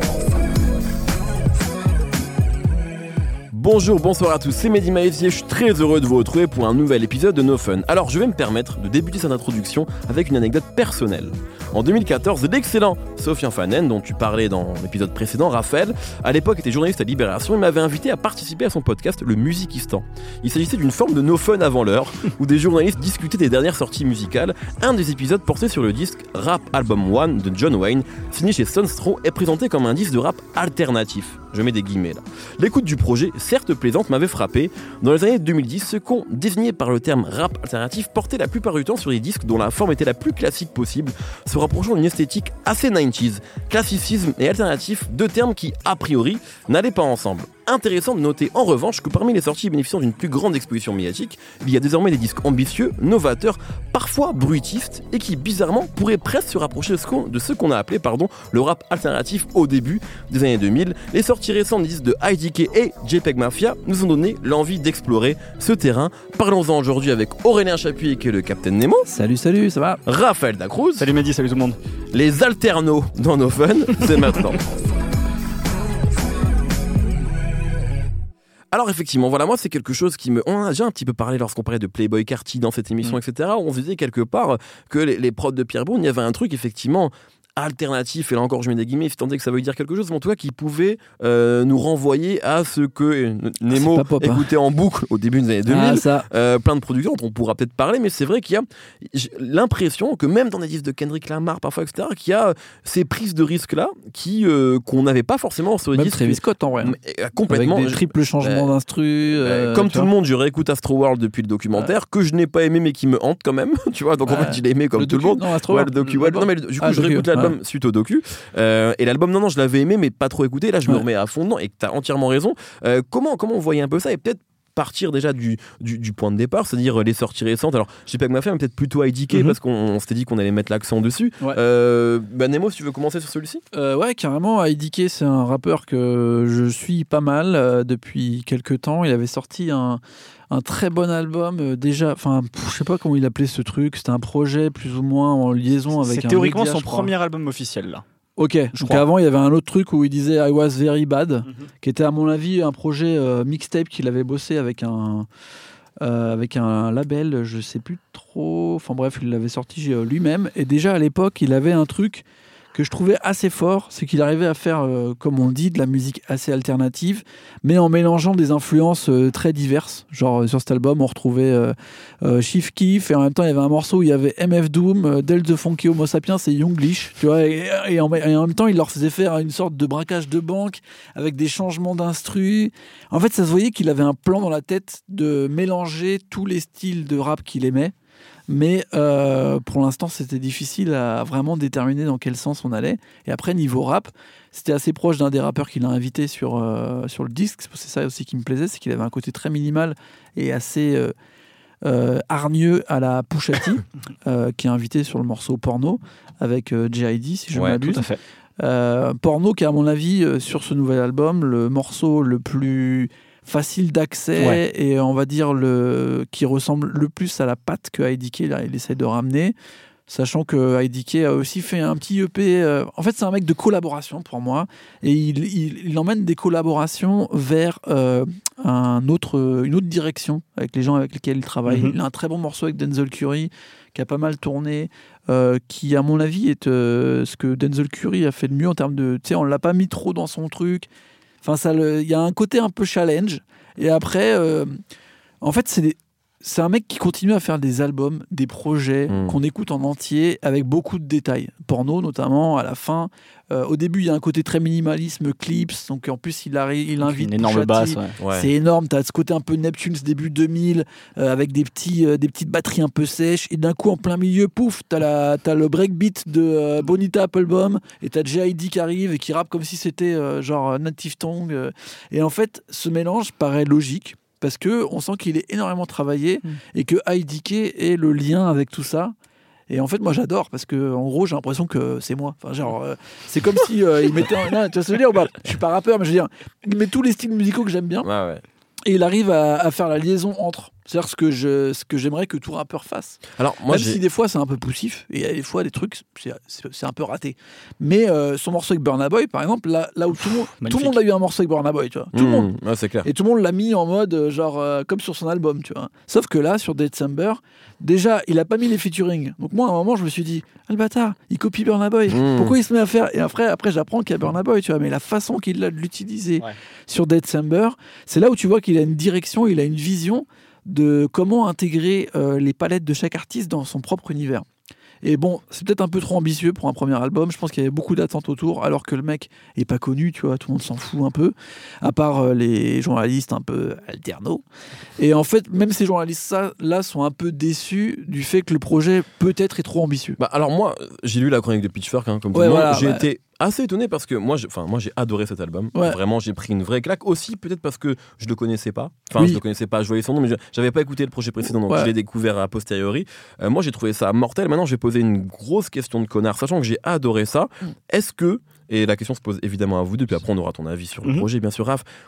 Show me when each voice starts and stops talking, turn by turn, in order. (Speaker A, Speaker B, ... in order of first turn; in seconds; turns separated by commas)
Speaker A: 3.5-69.1, Speaker B: 69.1-70.0, Speaker A: 70.1-71.1, Speaker C: 71.0-71.8, Speaker A: 72.1-74.6, Speaker A: 78.7-108.7, Speaker B: 93.7-94.5, Speaker B: 95.7-96.3, Speaker B: 105.9-107.0, Speaker B: 107.5-110.1, Speaker A: 109.4-133.6, Speaker B: 114.3-117.5, Speaker B: 133.7-147.1, Speaker C: 146.0-148.0, Speaker B: 148.4-155.3, Speaker C: 148.8-149.1, Speaker B: 156.0-187.9, Speaker B: 188.5-201.1, Speaker B: 201.8-208.1, Speaker A: 207.5-207.8, Speaker C: 207.8-208.2, Speaker B: 208.6-219.6, Speaker B: 220.1-240.9, Speaker C: 231.7-231.9, Speaker B: 241.4-244.8, Speaker B: 245.4-279.1, Speaker A: 249.1-249.4, Speaker C: 257.0-258.2, Speaker A: 258.2-258.5, Speaker B: 279.7-288.1, Speaker A: 288.0-288.4, Speaker B: 288.9-302.5, Speaker A: 293.4-294.0, Speaker C: 300.6-301.0, Speaker A: 302.1-303.1, Speaker B: 303.0-324.5, Speaker A: 312.1-312.5, Speaker B: 325.0-334.4, Speaker B: 335.0-340.2, Speaker A: 340.2-361.8, Speaker B: 342.3-343.0, Speaker B: 349.2-349.4, Speaker B: 351.6-351.9